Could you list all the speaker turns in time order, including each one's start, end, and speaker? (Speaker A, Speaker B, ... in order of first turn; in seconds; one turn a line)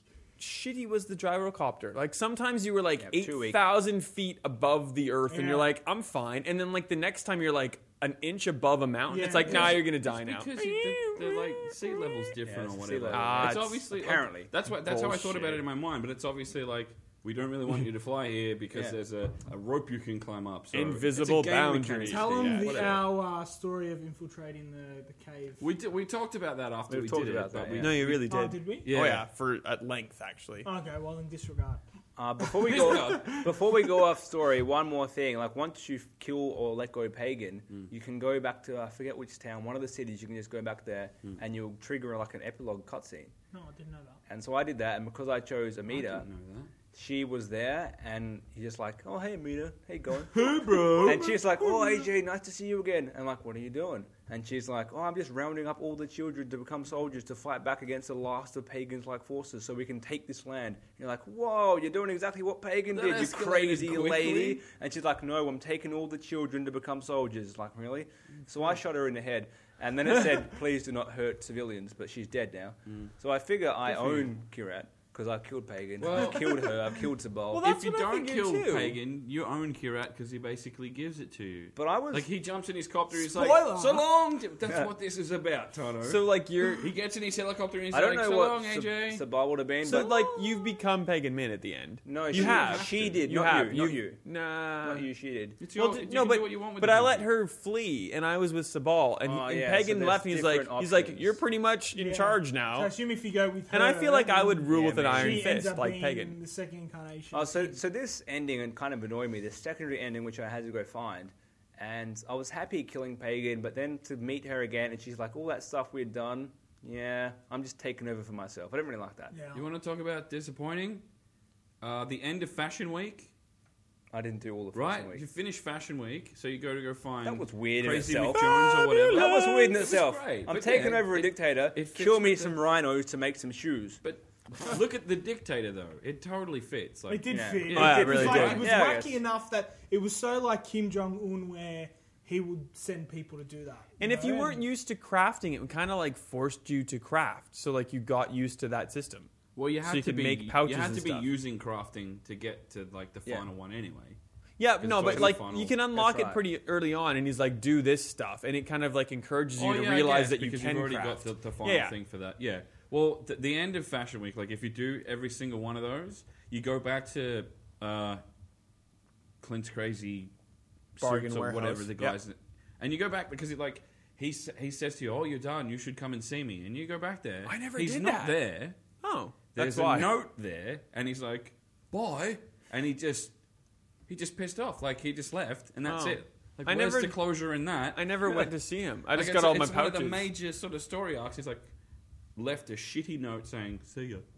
Speaker A: 0.4-12.3
Speaker B: 3.0-3.6
Speaker C: 5.3-5.7
Speaker C: 9.1-9.9
Speaker D: 9.3-23.1
Speaker B: 12.4-14.5
Speaker A: 13.1-13.8
Speaker A: 14.8-15.6
Speaker A: 20.7-22.8
Speaker B: 21.1-22.8
Speaker C: 22.1-25.6
Speaker D: 25.6-29.2
Speaker B: 26.9-28.0
Speaker A: 27.8-30.7
Speaker C: 28.0-28.9
Speaker C: 30.6-31.8
Speaker B: 32.2-43.3
Speaker C: 32.5-33.4
Speaker D: 32.6-33.5
Speaker C: 43.5-44.2
Speaker B: 44.3-46.3
Speaker D: 45.9-46.7
Speaker B: 46.9-77.7
Speaker D: 50.3-51.4
Speaker C: 50.4-51.3
Speaker D: 62.9-64.6
Speaker D: 72.8-73.1
Speaker D: 73.9-74.3
Speaker D: 76.0-76.8
Speaker A: 77.5-79.0
Speaker D: 77.6-89.2
Speaker B: 81.8-82.3
Speaker C: 83.1-84.0
Speaker B: 84.7-84.9
Speaker A: 86.0-86.9
Speaker B: 87.9-90.2
Speaker A: 89.8-95.1
Speaker B: 92.0-94.2
Speaker D: 92.3-93.3
Speaker B: 94.8-95.6
Speaker D: 95.6-97.3
Speaker A: 95.7-102.9
Speaker B: 99.2-101.4
Speaker C: 101.9-107.8
Speaker A: 103.7-106.4
Speaker B: 104.7-105.5
Speaker B: 107.3-119.3
Speaker C: 119.3-119.6
Speaker D: 119.5-121.0
Speaker D: 121.8-123.3
Speaker B: 124.1-125.2
Speaker D: 124.7-132.6
Speaker B: 127.2-134.0
Speaker A: 128.3-129.9
Speaker D: 134.0-138.7
Speaker C: 137.1-144.6
Speaker B: 137.3-139.2
Speaker A: 137.7-138.7
Speaker A: 144.0-149.3
Speaker D: 149.6-154.2
Speaker A: 149.8-151.3
Speaker A: 154.6-161.9
Speaker D: 154.8-155.8
Speaker B: 155.9-156.4
Speaker D: 159.6-168.2
Speaker D: 169.4-170.3
Speaker D: 170.9-178.8
Speaker A: 171.0-172.2
Speaker A: 177.4-178.4
Speaker A: 179.0-180.1
Speaker D: 179.5-183.3
Speaker D: 184.1-188.5
Speaker A: 185.8-187.2
Speaker A: 187.9-190.3
Speaker D: 189.1-191.7
Speaker D: 192.3-194.2